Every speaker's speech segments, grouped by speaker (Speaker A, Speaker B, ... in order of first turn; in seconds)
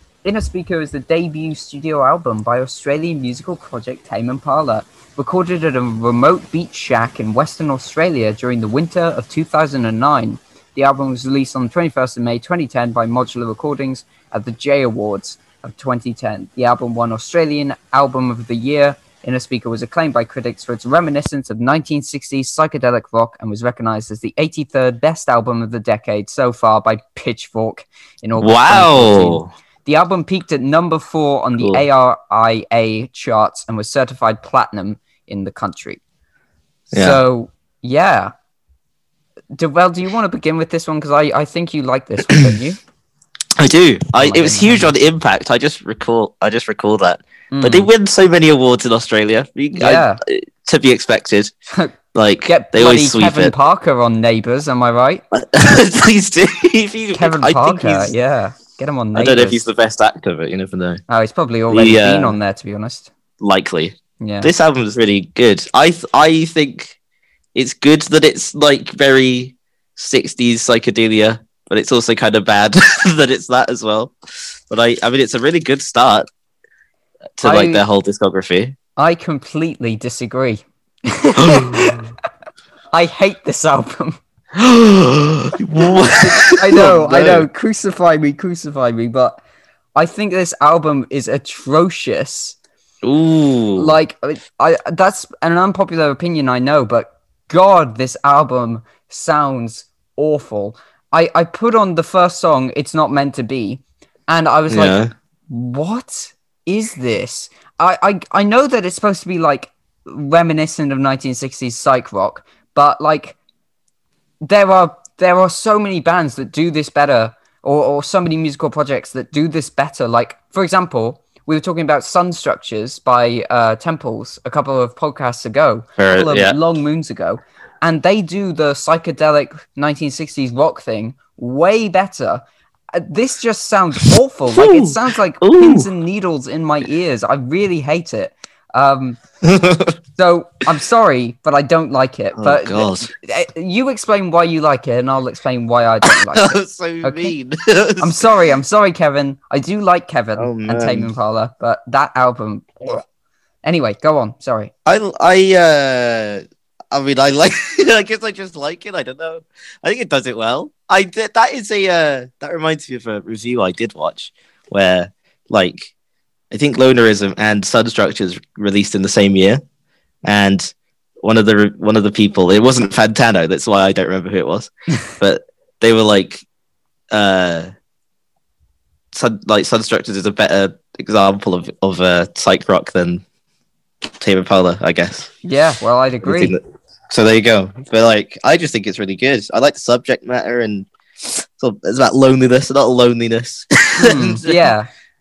Speaker A: 0.2-36.0, 36.9-38.3, 39.5-42.8, 44.2-44.9, 47.5-47.9, 49.7-50.2, 52.5-55.2, 57.1-59.7, 61.1-63.1, 64.2-64.5, 77.4-77.8, 79.0-82.1, 82.9-84.2, 86.1-89.4, 90.0-92.6, 93.8-105.0, 105.5-113.4, 114.5-139.2, 140.2-147.3, 148.0-153.0, 153.6-154.7, 185.4-186.6, 194.0-194.9
Speaker B: 28.4-29.5, 31.6-31.8, 36.9-37.2, 43.6-51.5, 52.1-53.5, 55.3-58.1, 59.1-61.0, 61.7-62.4, 63.4-67.0, 67.5-74.1, 74.7-76.3, 77.4-78.8, 81.3-82.0, 84.5-87.5, 93.0-94.0, 104.7-105.1, 126.0-126.6, 134.6-135.9, 139.4-139.9, 142.4-143.1, 146.3-148.3, 150.4-151.1, 154.9-165.9, 166.5-169.6, 170.2-176.4, 177.1-177.7, 179.1-183.2, 184.2-185.3, 186.2-194.7